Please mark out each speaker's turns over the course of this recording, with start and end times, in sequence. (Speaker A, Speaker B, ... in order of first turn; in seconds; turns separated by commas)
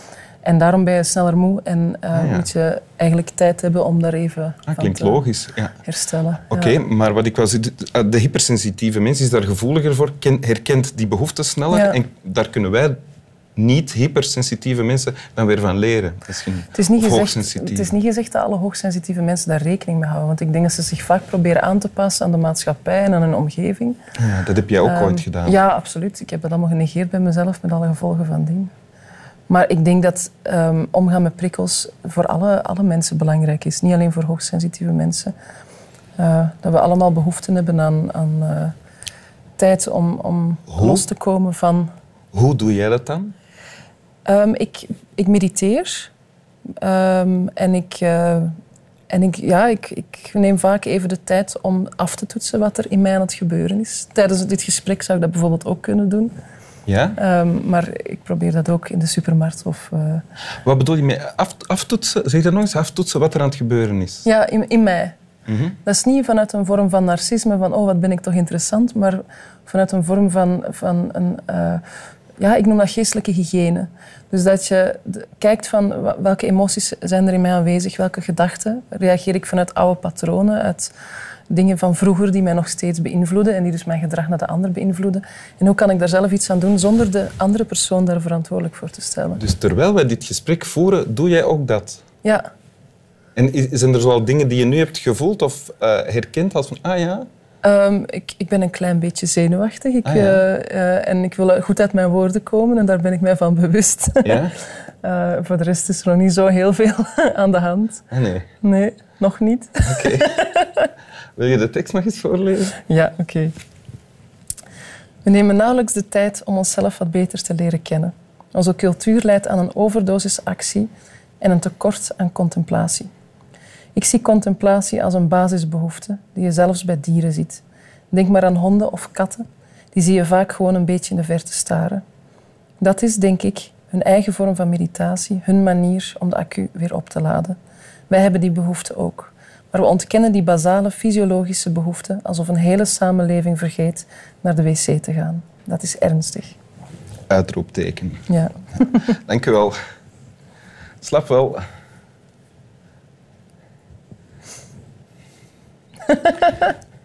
Speaker A: 0.4-5.2, Speaker B: 2.1-2.5, Speaker B: 4.7-5.7, Speaker A: 5.8-6.8, Speaker B: 6.5-13.0, Speaker A: 11.7-12.0, Speaker B: 13.6-17.9, Speaker A: 16.7-24.0, Speaker B: 24.2-25.6, Speaker A: 24.8-28.7, Speaker A: 29.5-35.3, Speaker A: 36.2-38.7, Speaker A: 39.6-41.9, Speaker B: 40.7-41.0, Speaker B: 42.3-43.3, Speaker A: 44.3-46.1, Speaker A: 46.8-48.5, Speaker A: 49.1-56.3, Speaker B: 56.9-57.2, Speaker A: 57.2-60.2, Speaker B: 60.6-64.3, Speaker A: 64.2-65.2, Speaker B: 65.5-65.8, Speaker A: 65.8-71.8, Speaker A: 72.4-80.9, Speaker A: 81.5-89.4, Speaker B: 89.4-92.0, Speaker B: 93.4-97.3, Speaker A: 97.6-104.5, Speaker B: 100.1-100.4, Speaker B: 104.2-104.6, Speaker A: 105.0-108.0, Speaker B: 108.1-108.5, Speaker A: 108.6-110.9, Speaker B: 109.9-110.3, Speaker B: 111.4-112.8, Speaker A: 112.8-113.5, Speaker A: 115.2-120.9, Speaker A: 121.4-123.1, Speaker A: 124.0-132.0, Speaker A: 132.8-137.6, Speaker A: 138.1-146.6, Speaker B: 147.3-148.3, Speaker A: 148.3-149.0, Speaker B: 149.1-149.8, Speaker B: 151.0-151.6, Speaker A: 156.1-156.6